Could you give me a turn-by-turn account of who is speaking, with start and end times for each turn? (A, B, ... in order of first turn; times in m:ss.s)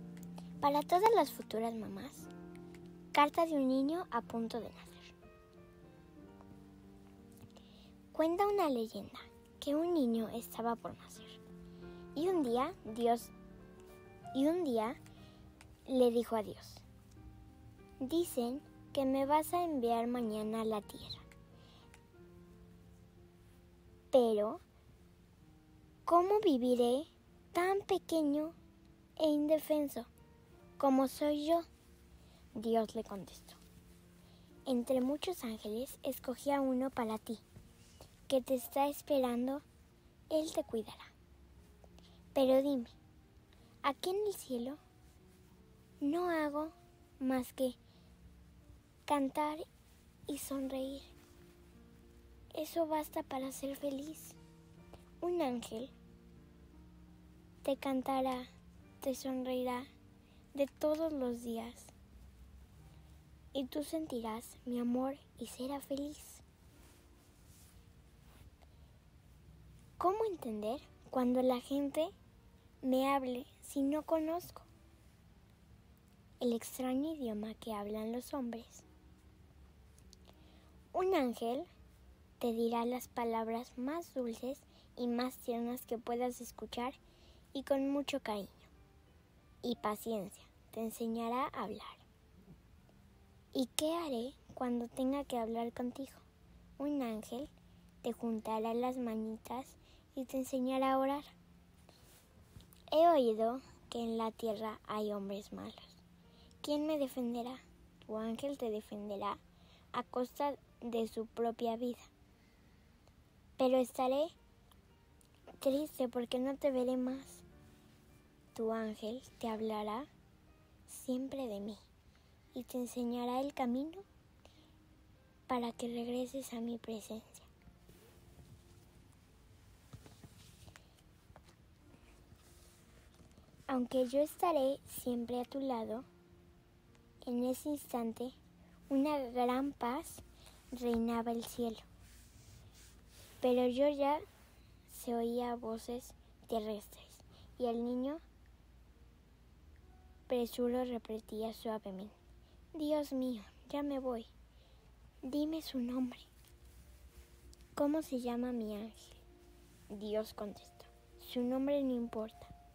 0:00.6-0:02.3 A
0:03.1-0:05.2 A
0:08.1-0:11.4 A
0:12.2-0:13.3 A
0:14.3-0:15.0 A
0:15.9-0:16.8 A
0:18.0-0:21.3 A
0:24.1-0:24.6 A
0:26.1-0:28.5 A
0:29.2-0:30.1 A
0:30.8-0:31.7 A
0:32.5-0:33.6 A
0:34.7-0:37.4 A
0:38.3-0:39.6 A
0:40.3-0:41.1 A
0:42.3-0:42.9 A
0:43.8-0:44.8 A
0:46.0-0:47.8 A
0:49.1-0:49.6 A
0:50.3-0:51.1 A
0:52.5-0:54.4 A
0:55.2-0:55.9 A
0:57.6-0:58.5 A
0:59.0-0:59.9 A
1:00.5-1:01.9 A
1:03.5-1:06.4 A
1:10.0-1:12.1 A
1:12.8-1:14.7 A
1:16.4-1:18.9 A
1:20.9-1:21.7 A
1:22.4-1:27.0 A
1:27.5-1:28.7 A
1:29.6-1:32.0 A
1:33.5-1:36.2 A
1:36.8-1:37.5 A
1:38.0-1:41.3 A
1:42.9-1:46.0 A
1:46.6-1:49.4 A
1:49.9-1:52.1 A
1:53.6-1:54.4 A
1:55.6-1:57.4 A
1:58.5-2:00.1 A
2:00.9-2:01.8 A
2:02.5-2:04.0 A
2:05.5-2:07.5 A
2:13.7-2:16.1 A
2:17.2-2:18.4 A
2:18.9-2:21.9 A
2:23.4-2:24.2 A
2:24.9-2:28.2 A
2:30.3-2:32.2 A
2:32.7-2:34.3 A
2:35.2-2:36.3 A
2:37.8-2:39.2 A
2:39.9-2:42.5 A